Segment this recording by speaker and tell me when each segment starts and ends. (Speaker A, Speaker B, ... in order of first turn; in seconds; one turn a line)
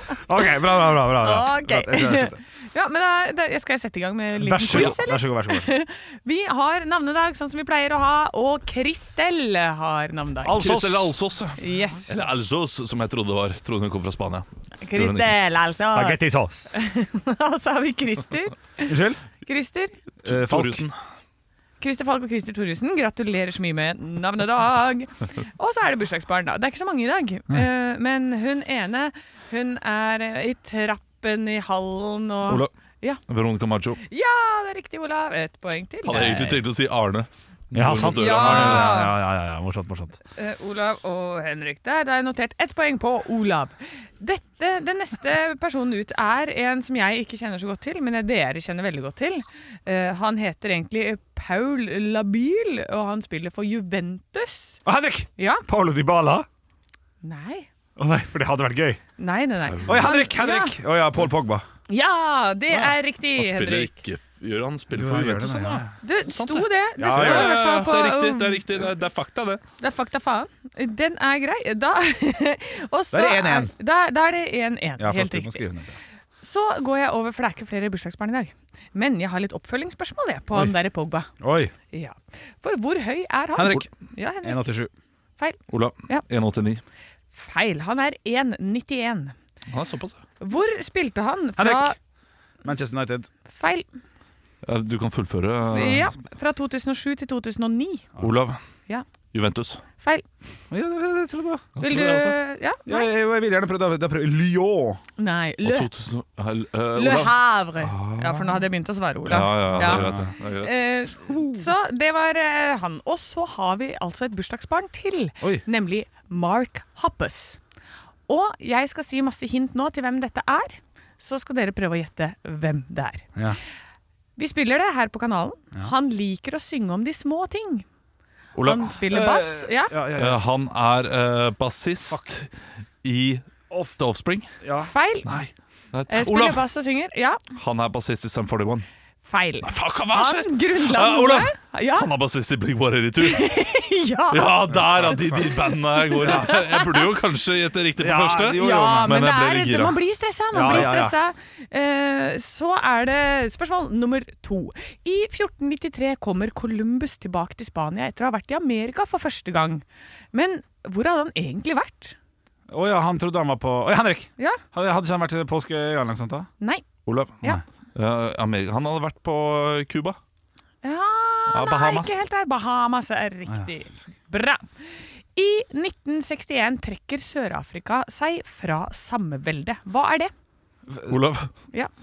Speaker A: 0.2-2.4
Speaker B: 1.2-10.7
Speaker A: 4.3-5.7
Speaker C: 4.7-5.0
Speaker A: 10.4-11.1
Speaker C: 10.5-15.3
Speaker B: 11.6-12.1
Speaker B: 14.8-16.2
Speaker A: 15.9-16.7
Speaker B: 16.7-20.0
Speaker A: 18.9-19.2
Speaker A: 20.2-20.9
Speaker C: 20.2-20.9
Speaker B: 21.8-33.2
Speaker C: 33.3-34.0
Speaker B: 34.1-36.6
Speaker C: 36.0-39.0
Speaker A: 37.7-40.2
Speaker B: 38.1-39.2
Speaker B: 40.4-54.8
Speaker A: 54.8-56.5
Speaker B: 55.4-55.6
Speaker B: 57.2-57.7
Speaker A: 58.0-59.0
Speaker B: 59.2-60.7
Speaker C: 59.6-60.1
Speaker A: 59.9-61.6
Speaker B: 61.9-63.9
Speaker C: 62.7-69.6
Speaker A: 64.9-65.8
Speaker B: 66.0-68.6
Speaker A: 67.0-67.6
Speaker B: 69.8-75.6
Speaker A: 73.1-73.7
Speaker A: 75.0-76.0
Speaker B: 76.4-81.3
Speaker A: 81.4-81.7
Speaker B: 81.9-84.6
Speaker A: 83.5-83.9
Speaker A: 84.4-84.9
Speaker B: 85.4-86.2
Speaker C: 85.7-86.8
Speaker B: 87.3-89.3
Speaker C: 89.7-90.2
Speaker B: 90.4-92.0
Speaker A: 91.6-91.9
Speaker A: 92.6-93.3
Speaker B: 93.5-93.8
Speaker C: 94.6-96.2
Speaker B: 95.7-98.1
Speaker C: 98.2-98.6
Speaker C: 99.3-99.8
Speaker A: 100.7-101.7
Speaker C: 101.8-102.4
Speaker B: 101.8-103.1
Speaker A: 102.9-105.0
Speaker B: 105.2-105.9
Speaker C: 105.6-108.7
Speaker B: 106.9-110.1
Speaker C: 109.2-110.9
Speaker A: 109.7-110.3
Speaker B: 110.6-117.6
Speaker B: 118.3-123.3
Speaker B: 124.3-127.8
Speaker C: 128.6-129.0
Speaker B: 128.6-129.9
Speaker A: 129.1-130.4
Speaker C: 130.2-132.5
Speaker C: 133.0-134.5
Speaker A: 134.6-134.9
Speaker B: 134.8-135.3
Speaker C: 135.2-136.6
Speaker B: 136.1-137.4
Speaker C: 137.6-138.8
Speaker B: 139.3-142.1
Speaker C: 139.6-143.6
Speaker B: 143.2-147.1
Speaker C: 144.3-150.0
Speaker A: 144.9-145.4
Speaker A: 146.2-146.5
Speaker A: 148.0-149.2
Speaker B: 148.6-162.2
Speaker A: 150.5-151.2
Speaker C: 150.6-151.0
Speaker A: 162.7-166.5
Speaker C: 167.1-170.2
Speaker B: 170.8-174.7
Speaker C: 171.5-172.2
Speaker B: 175.3-180.3
Speaker C: 181.1-181.5